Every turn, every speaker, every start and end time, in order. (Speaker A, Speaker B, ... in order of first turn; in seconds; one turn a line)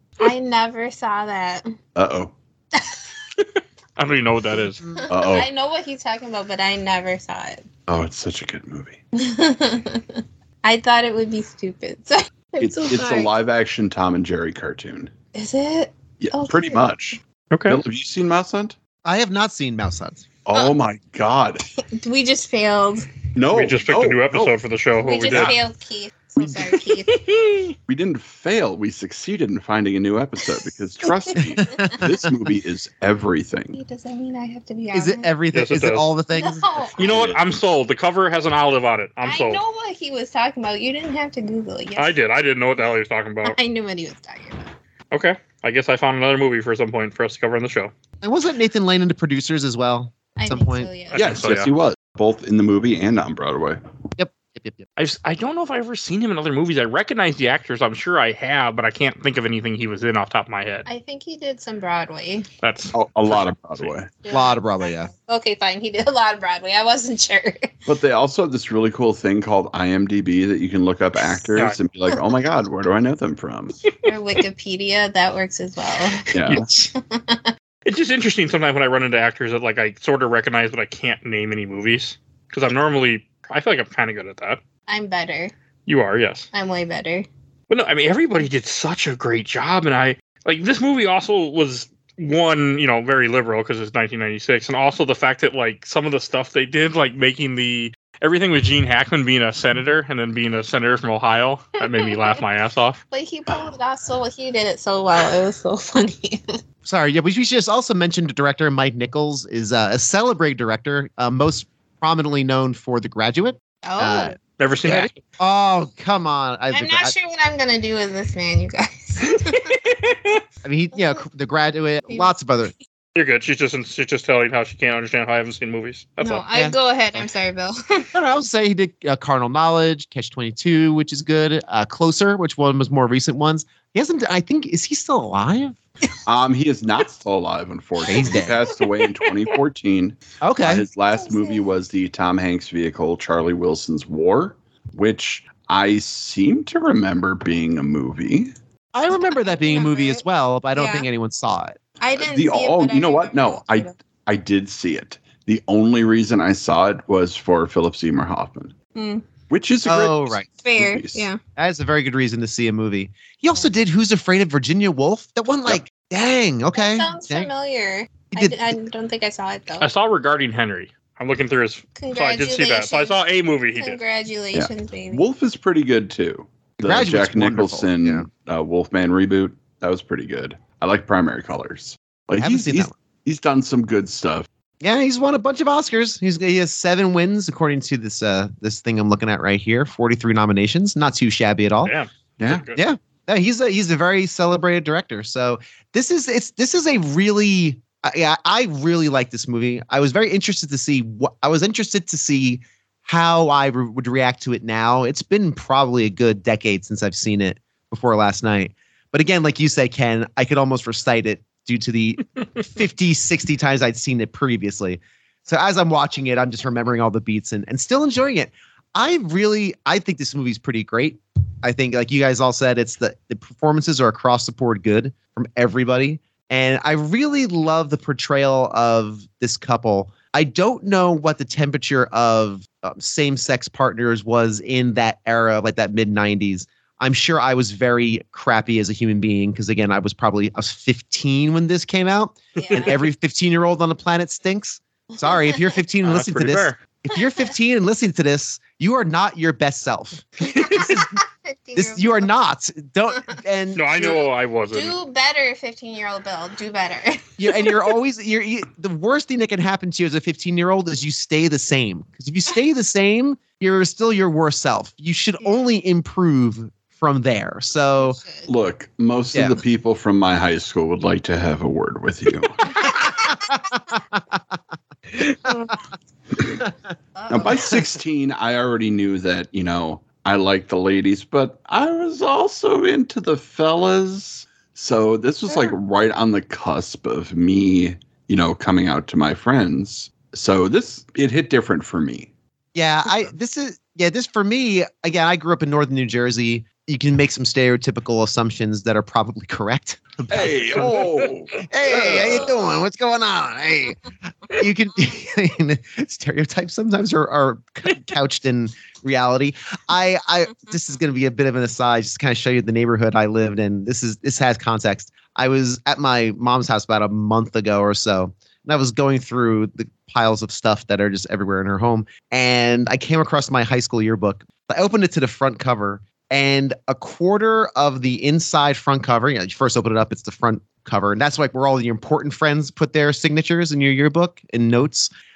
Speaker A: 0.2-1.7
Speaker B: 1.9-2.3
Speaker A: 2.7-3.0
Speaker C: 4.0-4.8
Speaker A: 4.9-7.6
Speaker B: 5.1-5.5
Speaker B: 7.9-9.0
Speaker A: 9.2-13.3
Speaker B: 12.6-15.1
Speaker A: 15.3-16.9
Speaker B: 16.2-18.8
Speaker C: 17.5-17.8
Speaker D: 19.0-20.2
Speaker B: 20.4-21.6
Speaker A: 21.8-23.1
Speaker B: 23.4-24.5
Speaker C: 23.5-25.6
Speaker A: 25.0-27.2
Speaker B: 25.3-25.6
Speaker C: 26.7-27.7
Speaker B: 27.9-33.8
Speaker A: 31.0-32.0
Speaker D: 31.6-32.1
Speaker A: 33.7-35.3
Speaker D: 34.9-36.6
Speaker C: 35.5-36.1
Speaker A: 36.3-37.2
Speaker C: 37.0-39.6
Speaker B: 37.0-37.4
Speaker A: 39.2-42.1
Speaker C: 42.0-43.5
Speaker A: 43.4-44.6
Speaker C: 45.1-47.9
Speaker D: 48.2-50.9
Speaker A: 50.4-51.2
Speaker C: 51.1-51.7
Speaker B: 51.1-53.8
Speaker D: 54.2-54.9
Speaker C: 55.0-60.9
Speaker A: 60.9-62.5
Speaker C: 62.6-63.9
Speaker B: 62.9-64.1
Speaker A: 64.2-67.7
Speaker D: 64.3-65.1
Speaker B: 67.9-73.8
Speaker A: 74.0-76.3
Speaker B: 76.3-76.7
Speaker C: 76.5-76.9
Speaker A: 76.9-77.5
Speaker C: 77.8-84.6
Speaker A: 84.9-85.5
Speaker C: 85.8-86.5
Speaker A: 86.5-87.3
Speaker C: 87.7-103.0
Speaker A: 103.1-106.6
Speaker D: 106.8-117.1
Speaker A: 113.8-114.3
Speaker C: 114.6-115.2
Speaker A: 116.7-119.7
Speaker C: 119.5-120.3
Speaker D: 120.6-122.7
Speaker C: 123.1-126.4
Speaker A: 126.2-128.1
Speaker D: 128.1-135.8
Speaker B: 136.2-148.5
Speaker D: 138.0-138.6
Speaker D: 140.4-140.8
Speaker A: 141.2-141.6
Speaker D: 148.9-151.8
Speaker A: 149.4-150.2
Speaker A: 150.8-151.1
Speaker A: 152.0-153.9
Speaker B: 152.2-158.7
Speaker A: 158.9-159.2
Speaker B: 159.5-161.3
Speaker D: 159.8-160.4
Speaker A: 160.6-161.4
Speaker D: 161.6-167.5
Speaker A: 166.7-169.9
Speaker C: 169.8-174.0
Speaker A: 171.9-173.2
Speaker A: 173.8-175.2
Speaker B: 174.5-184.5
Speaker D: 176.8-178.3
Speaker D: 182.4-182.9
Speaker D: 184.8-191.9
Speaker C: 191.8-192.8
Speaker B: 192.4-192.6
Speaker D: 192.7-251.2
Speaker A: 242.6-242.9
Speaker C: 242.6-242.9
Speaker A: 245.3-245.5
Speaker C: 246.0-246.8
Speaker A: 250.5-252.3
Speaker D: 251.7-254.2
Speaker C: 253.7-254.9
Speaker A: 254.7-257.8
Speaker D: 257.4-268.2
Speaker A: 268.0-268.5
Speaker B: 268.5-272.9
Speaker A: 272.7-273.6
Speaker D: 274.1-274.4
Speaker D: 275.2-275.5
Speaker A: 277.1-277.8
Speaker B: 277.3-292.3
Speaker D: 292.7-301.1
Speaker B: 300.3-302.5
Speaker D: 301.6-335.1